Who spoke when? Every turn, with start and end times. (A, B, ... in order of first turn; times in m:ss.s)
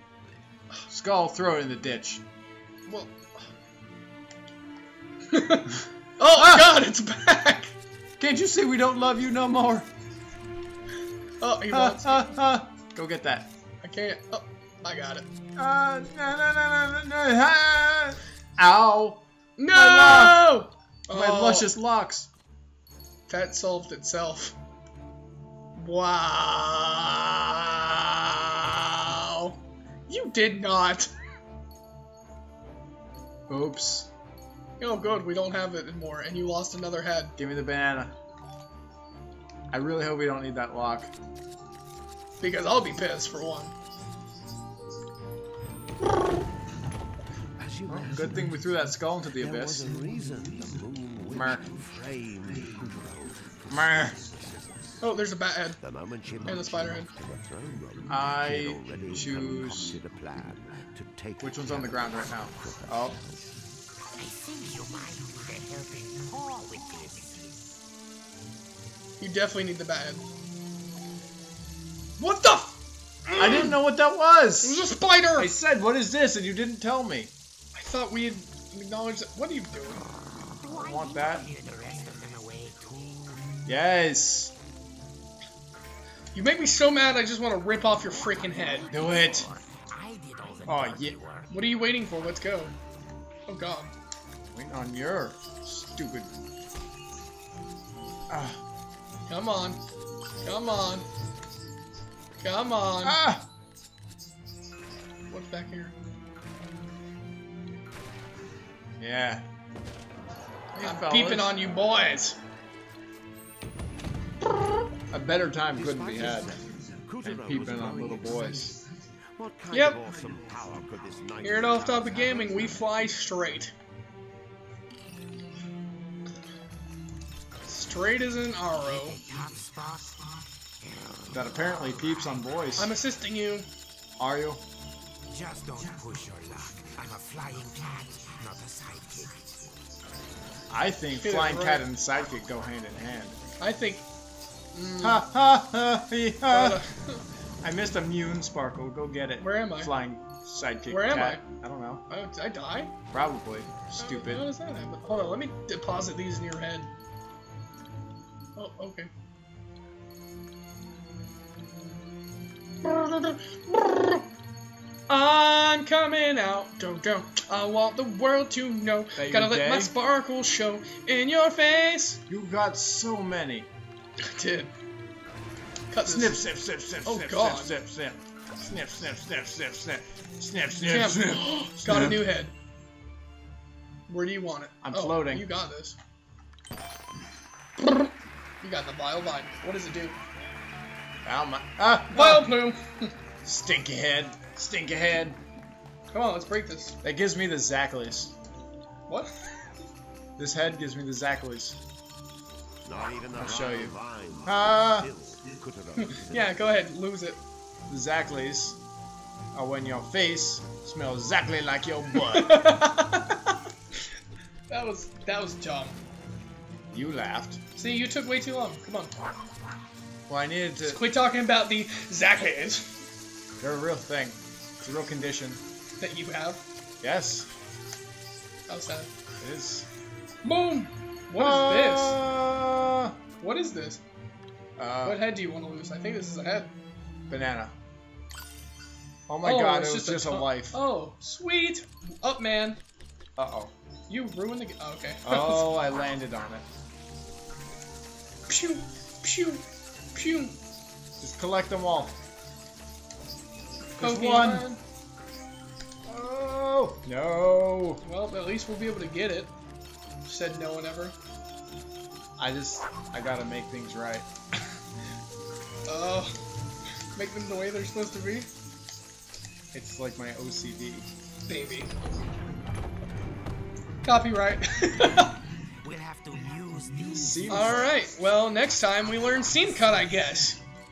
0:00.9-0:02.2 A
0:02.9-0:03.4 B
0:05.3-0:07.7 B
0:08.2-0:09.9 A
0:11.4-0:12.3 B
0:11.7-0:13.5 A
0:13.8-0:15.3 B
0:15.6-0:20.6 A
0:19.6-0:21.7 B
0:21.1-0:22.3 A
0:23.3-0:24.6 B
0:25.8-0:29.6 B
0:30.1-0:31.1 B
0:33.5-0:34.1 A
0:34.8-0:37.3 B
0:37.4-0:38.1 A
0:39.7-0:41.1 A
0:42.4-0:43.7 B
0:47.9-0:49.9 A
0:50.0-0:51.3 C
0:51.3-0:51.7 A
0:53.7-0:54.2 A
0:55.0-0:55.8 B
0:56.4-0:57.1 B
0:58.1-1:00.0 A
1:01.4-1:03.2 A
1:04.2-1:07.4 D
1:09.2-1:10.2 B
1:12.2-1:12.7 B
1:13.3-1:13.8 B
1:13.4-1:14.8 A
1:14.6-1:15.5 B
1:15.4-1:17.3 A
1:17.8-1:20.0 B
1:20.6-1:21.5 A
1:20.7-1:23.6 D
1:23.7-1:24.5 A
1:26.3-1:28.9 B
1:28.9-1:29.5 A
1:29.0-1:31.4 D
1:30.7-1:31.2 A
1:31.5-1:32.7 B
1:33.5-1:33.9 B
1:34.5-1:36.3 A
1:38.3-1:38.6 A
1:39.3-1:39.8 B
1:40.4-1:41.1 B
1:42.4-1:43.2 B
1:43.0-1:43.5 A
1:45.3-1:45.9 B
1:49.0-1:49.4 A
1:50.8-1:51.6 A
1:50.8-1:52.4 B
1:55.1-1:56.6 A
1:56.0-1:56.4 C
1:57.2-1:58.8 A
1:57.6-1:58.2 C
1:59.7-2:00.0 B
1:59.8-2:02.4 C
2:01.4-2:03.7 B
2:07.7-2:09.2 B
2:09.1-2:10.1 D
2:11.3-2:12.9 A
2:12.8-2:13.7 B
2:14.2-2:14.6 A
2:15.3-2:19.3 D
2:20.7-2:23.4 A
2:21.1-2:21.8 B
2:23.6-2:24.1 B
2:24.7-2:25.2 B
2:25.0-2:26.8 A
2:26.5-2:27.2 B
2:27.6-2:32.0 A
2:29.4-2:30.0 B
2:30.9-2:31.4 B
2:32.1-2:32.9 B
2:33.1-2:34.5 A
2:34.0-2:36.9 B
2:38.6-2:39.1 B
2:42.8-2:44.2 B
2:45.1-2:52.2 B
2:49.2-2:49.9 A
2:52.3-2:53.7 A
2:54.2-2:54.7 B
2:55.9-2:56.4 B
2:56.0-3:02.3 A
2:57.0-2:57.8 B
3:00.9-3:02.5 B
3:04.1-3:06.0 B
3:04.8-3:05.5 A
3:07.8-3:08.1 B
3:08.6-3:10.2 B
3:11.2-3:12.6 A
3:12.1-3:13.1 B
3:13.4-3:15.4 A
3:16.1-3:17.0 B
3:17.0-3:18.3 A
3:20.4-3:21.8 A
3:23.3-3:23.9 C
3:23.4-3:23.9 A
3:24.5-3:25.1 A
3:26.0-3:27.4 B
3:27.9-3:28.8 A
3:29.5-3:32.6 A
3:32.1-3:33.5 B
3:34.7-3:36.0 B
3:36.9-3:37.6 A
3:37.8-3:39.1 B
3:40.3-3:41.0 A
3:40.8-3:42.9 B
3:43.6-3:45.6 A
3:46.0-3:46.6 B
3:47.0-3:47.5 A
3:48.7-3:49.1 B
3:49.4-3:49.9 A
3:50.4-3:52.2 B
3:51.4-3:53.2 A
3:53.4-3:54.0 B
3:54.8-3:55.3 A
3:55.0-3:56.7 B
3:57.3-3:57.7 A
3:59.3-4:00.8 A
3:59.4-4:02.8 B
4:03.4-4:03.7 A
4:04.1-4:05.7 B
4:05.2-4:06.6 A
4:08.5-4:10.6 B
4:11.2-4:12.2 A
4:14.0-4:14.8 B
4:14.0-4:14.7 A
4:16.1-4:18.0 A
4:18.0-4:19.5 B
4:20.2-4:21.2 B
4:22.4-4:24.3 A
4:25.9-4:26.3 B
4:27.2-4:28.5 B
4:29.7-4:31.1 A
4:31.5-4:31.9 B
4:34.0-4:35.4 B
4:35.8-4:37.5 D
4:37.1-4:38.0 A
4:37.5-4:40.6 B